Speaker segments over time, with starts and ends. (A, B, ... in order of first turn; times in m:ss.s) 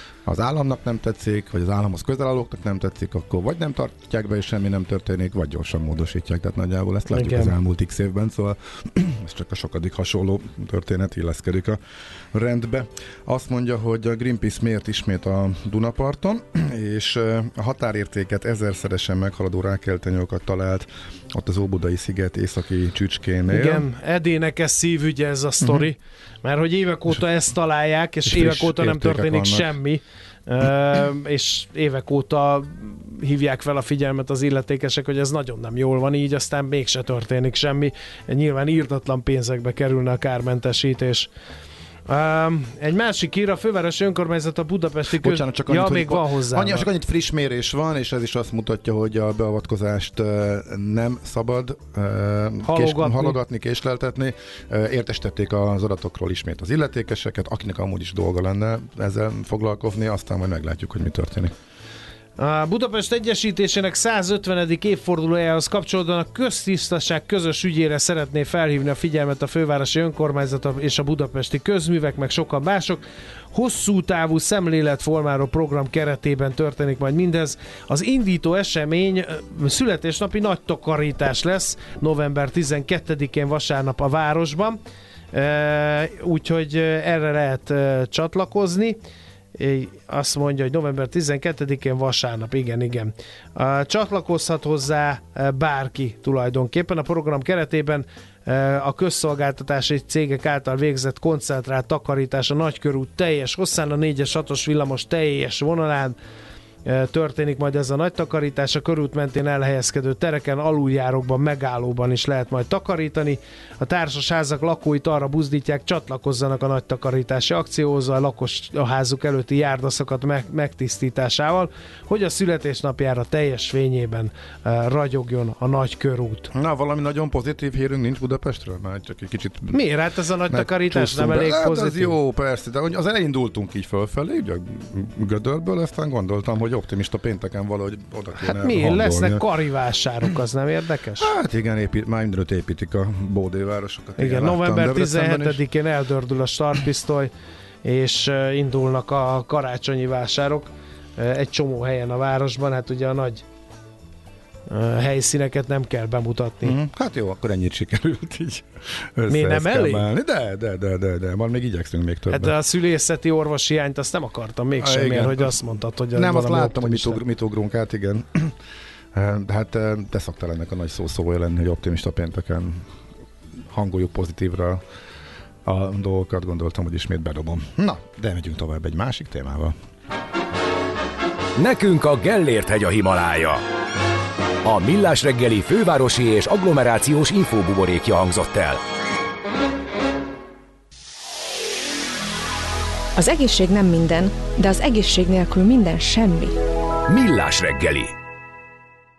0:00.2-0:11.8 A
0:07.1-0:07.5 B
0:12.3-0:23.8 A
0:23.5-0:41.3 B
0:25.6-0:25.9 A
0:28.2-0:29.7 A
0:42.1-0:46.9 B
0:45.1-1:01.5 A
0:52.6-0:53.4 B
1:02.4-1:24.8 B
1:25.3-1:29.0 B
1:29.6-1:46.2 B
1:46.8-2:06.5 B
2:06.5-2:09.8 A
2:09.7-2:12.1 B
2:10.5-2:19.4 A
2:18.4-2:21.3 B
2:21.2-2:25.6 A
2:24.2-2:27.3 B
2:27.8-2:33.4 B
2:34.7-2:36.8 B
2:36.6-2:42.5 A
2:39.3-2:40.1 B
2:42.3-2:47.2 B
2:44.8-2:45.5 A
2:46.1-2:48.6 A
2:49.1-2:52.8 A
2:53.7-2:54.8 A
2:55.6-2:59.7 A
3:01.6-3:03.6 C
3:04.6-3:08.8 C
3:13.2-3:16.6 D
3:17.1-3:18.1 C